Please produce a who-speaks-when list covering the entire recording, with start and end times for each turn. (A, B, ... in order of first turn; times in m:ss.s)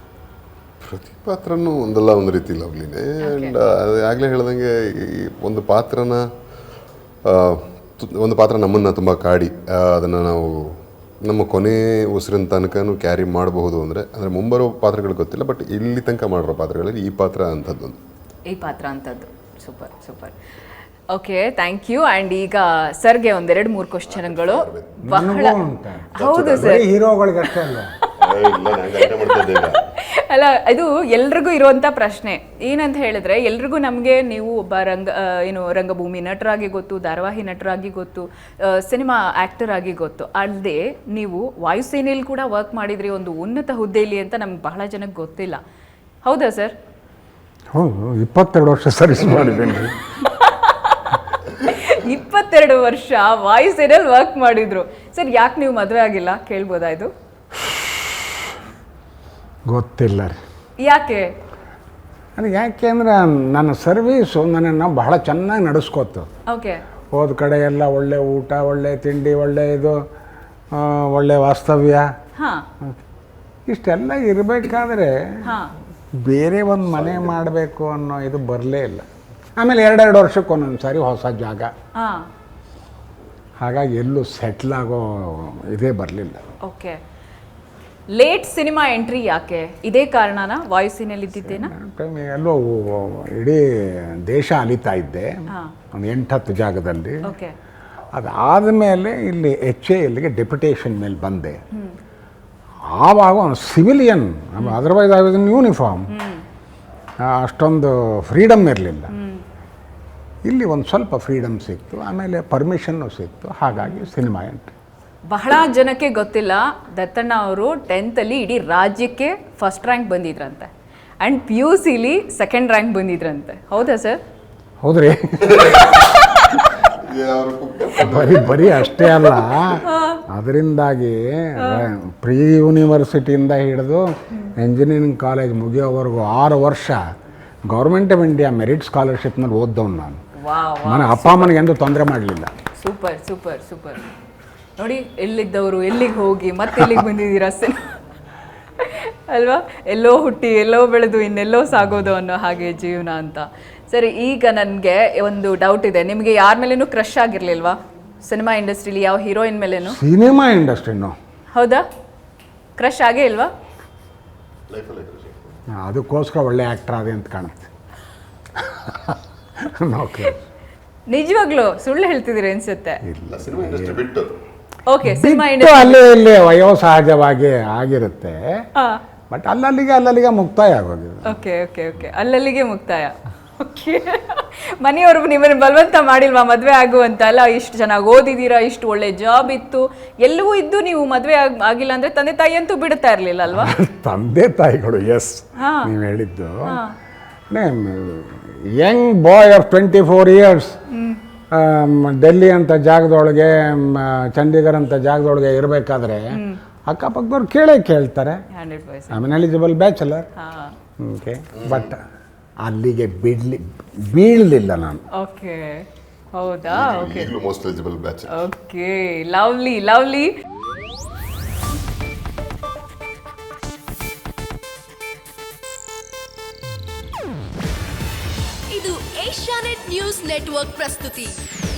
0:00.9-0:06.2 A
0:03.2-0:03.6 B
0:07.3-0:10.6 A
0:11.2-0:18.0 A
0:18.5-0:20.3 B
0:21.1-0:25.6 B
0:24.1-0:25.0 A
0:25.0-0:27.9 C
0:26.2-0:26.9 B
0:26.2-0:26.8 A
0:27.6-0:28.2 B
0:28.2-0:29.8 A
0:29.0-0:45.6 B
0:46.2-0:46.7 B
0:47.7-0:50.0 C
0:50.2-0:57.1 B
0:59.7-1:00.4 C
1:00.8-1:01.3 B
1:02.4-1:06.3 C
1:06.5-1:06.8 B
1:07.1-1:10.0 C
1:10.7-1:12.1 C
1:12.4-1:12.6 B
1:13.7-1:15.4 C
1:15.4-1:15.7 B
1:16.2-1:19.0 C
1:16.9-1:17.4 A
1:19.6-1:21.7 C
1:22.0-1:22.3 B
1:23.6-1:26.4 C
1:26.6-1:27.0 B
1:28.1-1:31.7 B
1:31.4-1:37.2 C
1:37.2-1:37.5 B
1:38.1-1:41.6 C
1:42.9-1:46.1 C
1:46.1-1:46.4 B
1:47.2-1:49.1 C
1:49.1-1:49.4 B
1:50.4-1:54.7 C
1:53.8-1:54.1 B
1:55.3-2:00.7 B
2:01.2-2:04.2 B
2:04.8-2:06.1 C
2:05.5-2:05.9 A
2:06.1-2:06.4 B
2:06.8-2:09.8 A
2:08.0-2:17.0 C
2:09.8-2:10.2 B
2:11.6-2:11.8 B
2:17.7-2:20.2 C
2:20.4-2:21.6 B
2:20.8-2:22.5 C
2:22.8-2:24.0 B
2:24.8-2:27.9 B
2:28.8-2:40.0 B
2:39.9-2:41.1 C
2:41.5-2:41.8 B
2:42.8-2:43.5 B
2:44.7-2:45.5 A
2:45.8-2:47.7 C
2:48.6-2:50.4 C
2:51.1-2:53.0 B
2:53.0-2:54.0 C
2:53.2-2:54.3 A
2:54.9-2:56.1 B
2:55.0-2:58.4 C
2:59.3-3:01.4 C
3:01.3-3:13.7 B
3:13.5-3:16.8 C
3:15.6-3:15.9 B
3:16.6-3:16.9 B
3:17.5-3:20.8 C
3:20.9-3:21.2 B
3:21.5-3:28.4 C
3:26.3-3:26.6 B
3:28.5-3:29.2 B
3:29.1-3:30.3 C
3:30.4-3:30.8 B
3:31.0-3:32.0 C
3:31.6-3:31.9 A
3:32.6-3:35.0 C
3:35.1-3:37.3 B
3:36.7-3:38.3 A
3:38.3-3:40.3 B
3:48.7-3:51.4 D